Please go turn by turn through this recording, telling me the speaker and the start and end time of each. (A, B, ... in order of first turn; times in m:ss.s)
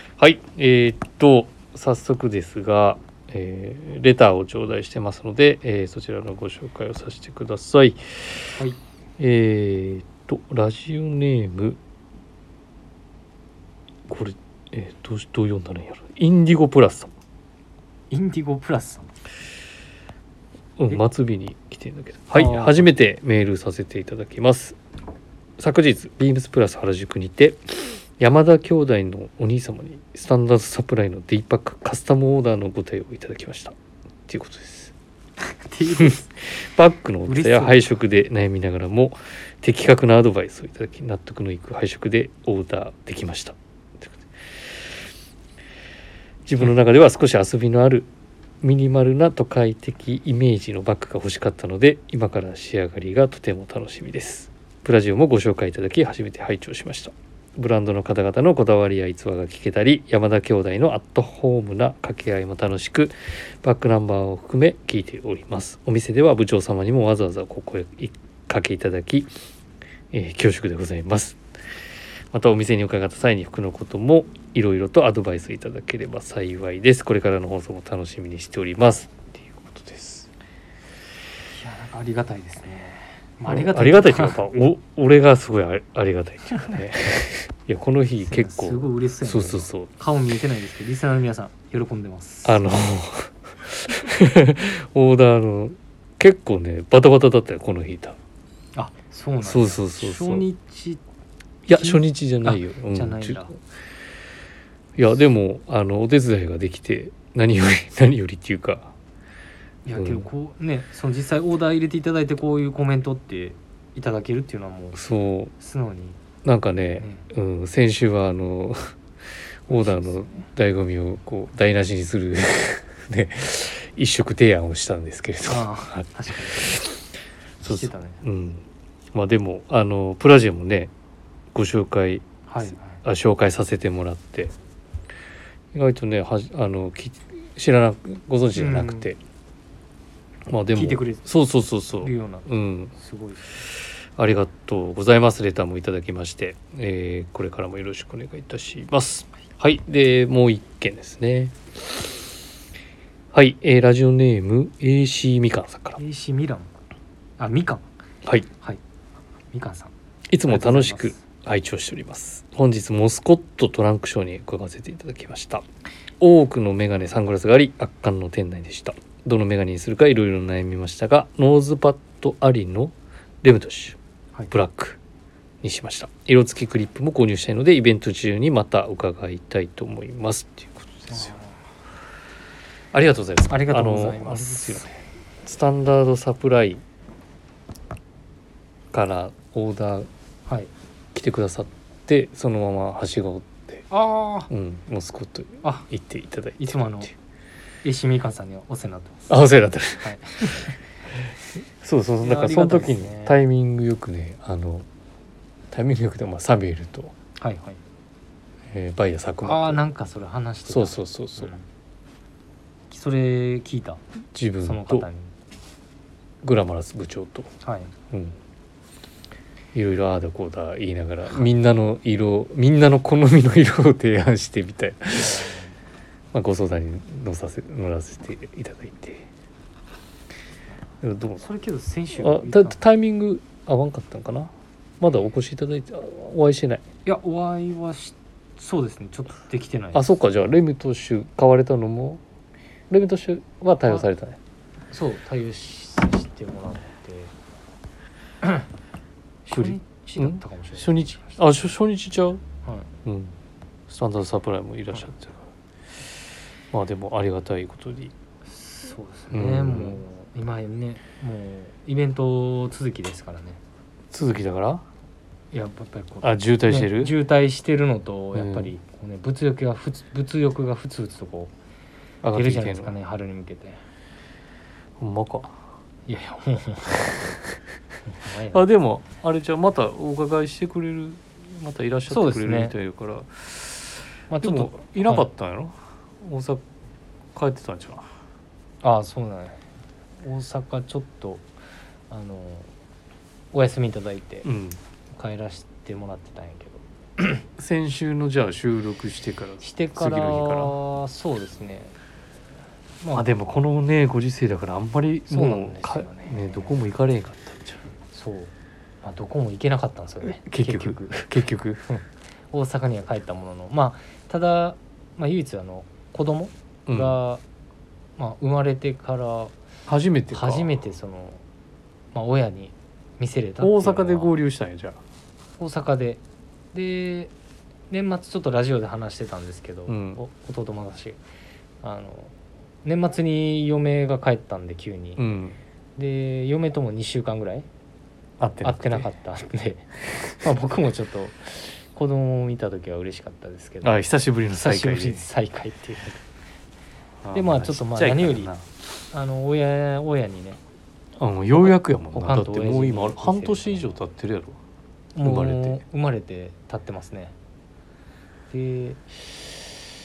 0:00.2-0:08.6 A
0:09.2-0:11.8 A
0:14.1-0:17.1 A
0:18.1-0:19.2 B
0:20.8-0:24.8 A
0:22.4-0:22.9 B
0:25.6-0:33.8 A
0:34.3-0:34.9 A
0:35.6-0:36.3 B
0:36.0-0:44.2 A
0:37.2-0:38.0 B
0:46.5-0:48.1 A
0:48.6-1:09.3 A
1:10.1-1:11.4 A
1:12.3-1:20.3 A
1:21.5-1:24.4 B
1:23.5-1:29.9 A
1:28.2-1:32.6 B
1:32.4-1:38.2 A
1:38.8-1:41.0 B
1:39.4-1:40.5 A
1:41.7-1:43.6 A
1:41.7-1:43.5 B
1:45.0-1:49.0 A
1:49.8-1:55.0 B
1:49.9-1:50.3 A
1:54.9-1:55.5 A
1:55.6-1:56.2 B
1:56.4-1:58.9 A
1:57.0-1:57.2 B
1:59.7-2:00.5 B
1:59.7-2:07.1 A
2:05.5-2:06.7 B
2:07.6-2:08.2 B
2:07.6-2:10.9 A
2:11.5-2:14.5 A
2:12.5-2:13.0 B
2:15.7-2:19.2 A
2:18.5-2:19.1 B
2:20.5-2:22.9 A
2:20.7-2:21.2 B
2:22.0-2:23.6 B
2:24.2-2:32.0 A
2:33.3-2:36.0 A
2:36.0-2:36.7 B
2:37.4-2:37.8 B
2:39.5-2:39.9 B
2:40.3-2:45.7 A
2:40.5-2:41.2 B
2:46.2-2:54.0 A
2:54.5-2:55.0 A
2:55.6-3:01.3 A
3:01.1-3:01.6 B
3:02.9-3:06.8 A
3:03.5-3:04.9 B
3:08.9-3:10.1 A
3:10.5-3:10.7 B
3:11.2-3:13.9 A
3:13.9-3:14.5 B
3:14.5-3:17.1 A
3:15.6-3:15.9 B
3:16.6-3:17.1 B
3:17.8-3:19.2 B
3:19.3-3:24.9 A
3:20.0-3:20.8 B
3:22.2-3:23.4 B
3:25.7-3:27.1 A
3:27.4-3:27.8 B
3:28.7-3:29.8 A
3:29.4-3:31.6 B
3:30.7-3:31.6 A
3:32.9-3:34.0 B
3:34.4-3:35.1 A
3:34.6-3:35.3 B
3:36.4-3:37.5 A
3:37.6-3:37.9 B
3:38.1-3:38.4 A
3:39.8-3:45.5 A
3:45.2-3:45.8 B
3:46.3-3:49.3 A
3:51.0-3:51.5 A
3:51.4-3:52.8 B
3:52.2-3:56.8 A
3:57.0-4:00.1 B
3:59.9-4:02.2 A
4:02.9-4:04.4 A
4:04.9-4:07.3 B
4:08.4-4:08.7 B
4:09.5-4:11.7 B
4:09.5-4:12.4 A
4:13.0-4:13.4 A
4:13.9-4:15.4 A
4:16.7-4:18.1 A
4:18.4-4:23.6 B
4:19.3-4:20.0 A
4:24.1-4:24.8 A
4:25.5-4:31.5 B
4:26.2-4:27.2 A
4:28.4-4:28.7 A
4:32.2-4:33.0 A
4:32.3-4:33.8 B
4:35.0-4:35.6 A
4:36.1-4:37.4 B
4:38.1-4:38.6 B
4:38.5-4:46.6 A
4:42.1-4:42.7 B
4:44.3-4:45.3 B
4:47.4-4:48.1 A
4:48.8-4:49.6 B
4:50.2-4:51.4 B
4:52.1-4:52.7 B
4:53.5-4:54.5 B
4:54.4-4:54.8 A
4:55.1-4:57.4 B
4:57.6-5:00.8 A
4:59.6-5:02.0 B
5:03.0-5:03.3 B
5:03.1-5:07.9 A
5:05.3-5:06.8 B
5:08.1-5:11.3 B
5:10.2-5:11.9 A
5:11.9-5:17.4 B
5:16.9-5:17.2 A
5:18.2-5:19.5 B
5:19.9-5:20.8 A
5:20.3-5:21.4 B
5:22.1-5:24.3 B
5:23.6-5:25.0 A
5:25.6-5:26.2 B
5:26.7-5:27.3 B
5:27.9-5:31.2 B
5:29.9-5:30.2 A
5:31.8-5:35.3 B
5:35.2-5:35.6 A
5:36.0-5:37.7 B
5:38.4-5:39.1 A
5:38.6-5:44.0 B
5:43.8-5:45.3 A
5:44.6-5:46.2 B
5:47.2-5:48.6 A
5:47.3-5:48.5 B
5:49.1-5:50.6 B
5:51.2-5:54.6 A
5:51.5-5:54.0 B
5:55.2-5:57.4 B
5:55.2-5:55.8 A
5:58.5-5:59.5 B